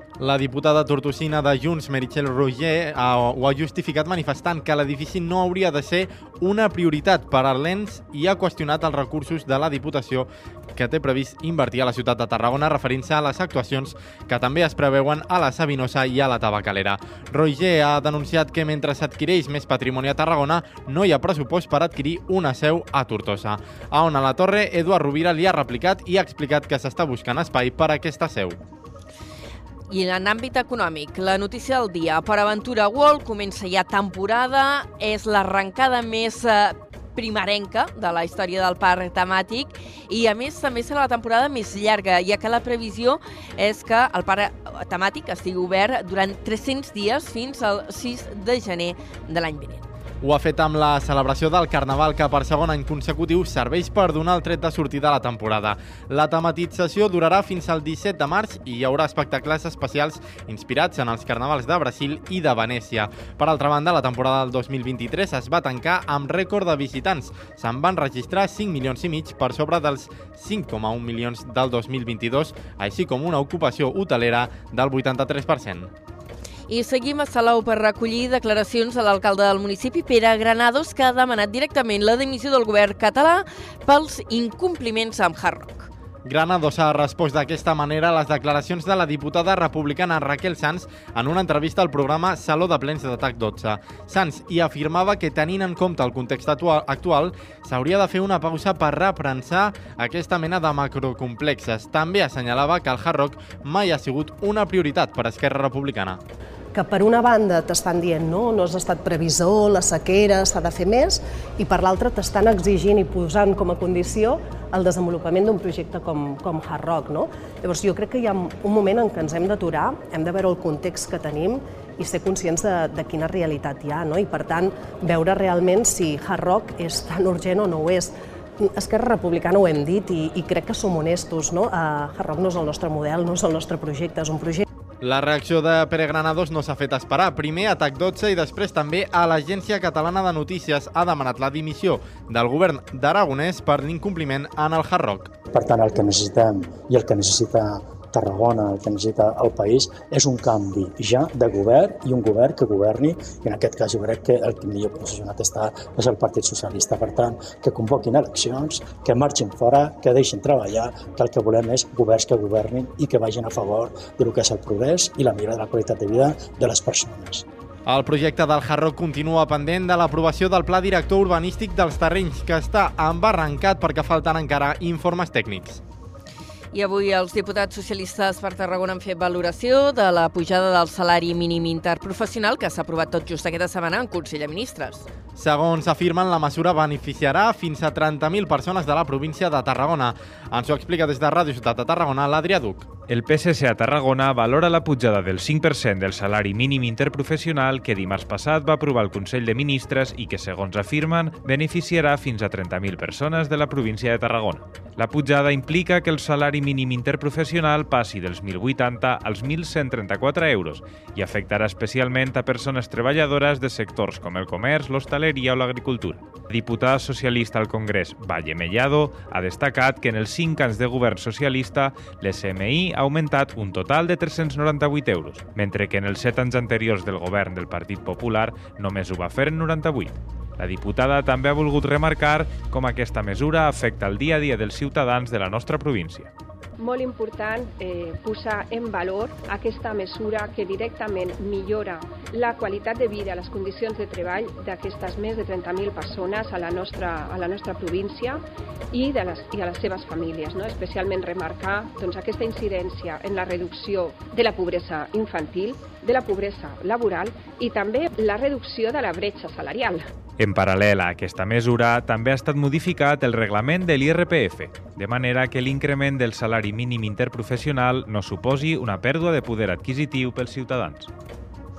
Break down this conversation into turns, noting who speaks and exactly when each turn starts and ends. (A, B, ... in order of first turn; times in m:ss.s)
0:00.2-0:28.6 A
0:29.9-0:49.9 B
0:50.2-1:15.9 A
1:16.7-1:25.9 B
1:26.3-1:46.2 A
1:46.8-2:14.7 C
2:15.0-2:25.3 A
2:25.5-2:47.4 D
2:47.9-2:55.8 A
2:56.7-3:05.1 B
3:05.4-3:12.9 A
3:13.1-3:56.3 E
3:56.8-4:20.1 F
4:20.4-4:31.1 E